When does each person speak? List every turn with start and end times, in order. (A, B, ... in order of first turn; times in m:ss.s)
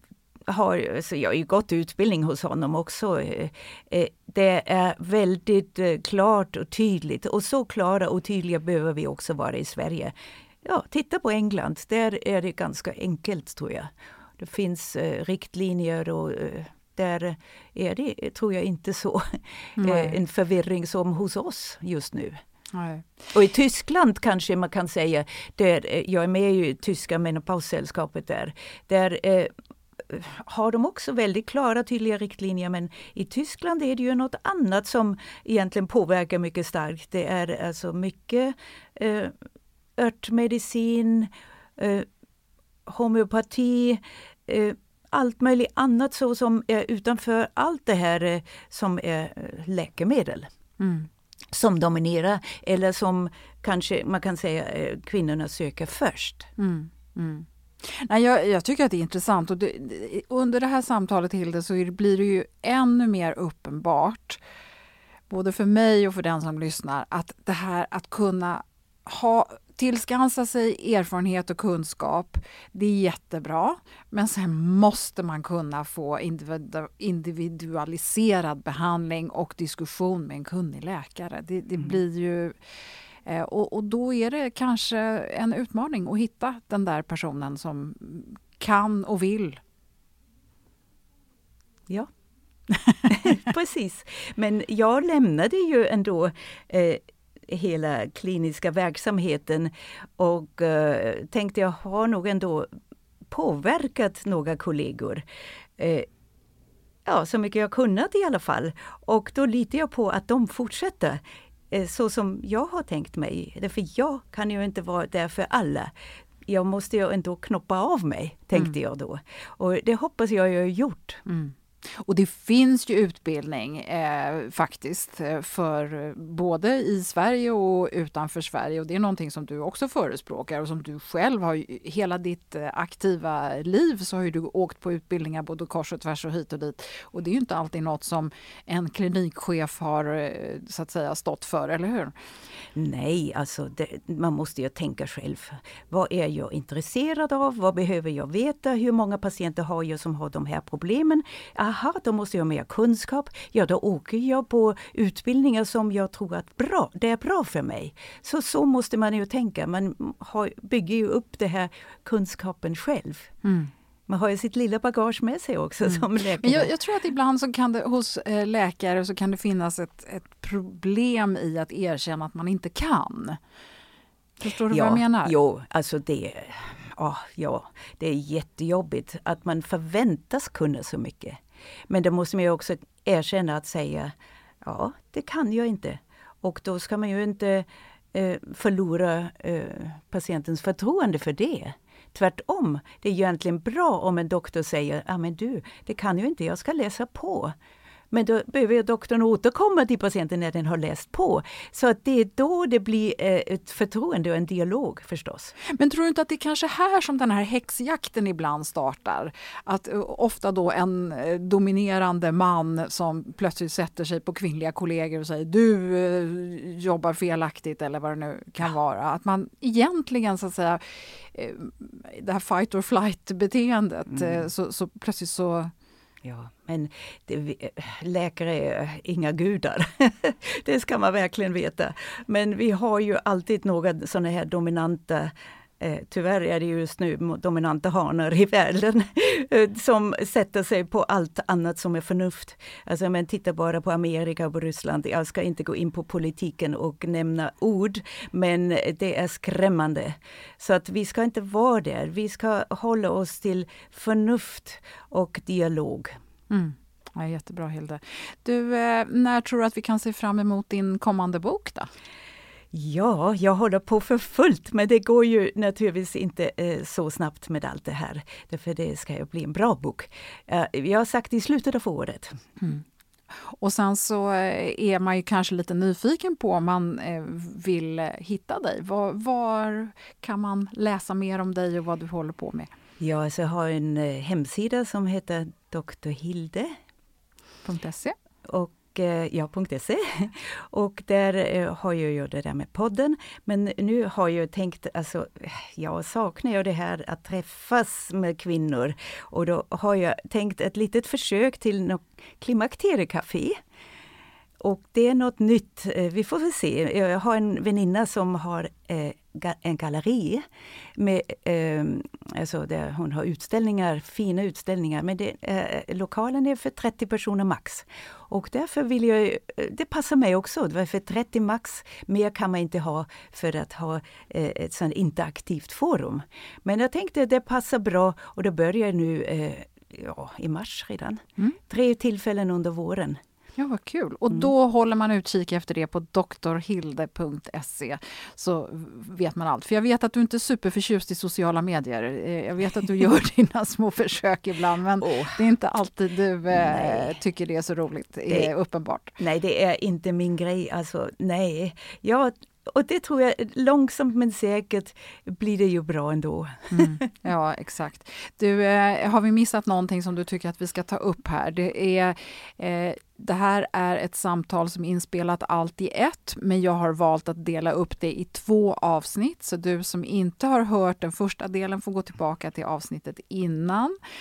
0:00.5-0:22.4 A
0:19.8-0:20.2 B
0:22.7-0:23.3 B
0:23.3-0:29.5 A
0:30.0-0:39.3 A
0:40.0-0:42.1 A
0:42.8-0:50.5 A
0:50.8-0:51.1 B
0:51.5-0:56.5 A
0:56.6-1:04.4 B
1:05.3-1:22.6 B
1:23.2-1:29.6 B
1:33.1-1:42.7 A
1:43.3-1:45.2 A
1:45.8-1:46.1 A
1:47.0-1:55.9 A
1:56.4-2:01.2 A
2:01.2-2:22.1 B
2:22.7-2:43.3 A
2:43.4-2:43.7 B
2:44.1-2:46.7 A
2:45.8-2:53.4 B
2:54.4-2:55.3 B
2:54.7-3:17.5 A
3:18.1-3:25.5 A
3:25.7-3:40.8 B
3:41.3-3:45.7 B
3:44.1-3:44.4 A
3:46.2-4:16.1 A
4:16.5-4:21.9 B
4:22.7-4:32.4 A
4:33.4-4:42.7 B
4:43.0-4:46.8 A
4:47.6-4:48.1 B
4:48.4-5:03.6 A
5:04.6-5:10.4 A
5:11.0-5:33.2 A
5:33.6-5:49.1 B
5:45.0-5:45.4 A
5:46.5-5:47.2 A
5:49.2-5:56.9 A
5:56.7-6:13.9 B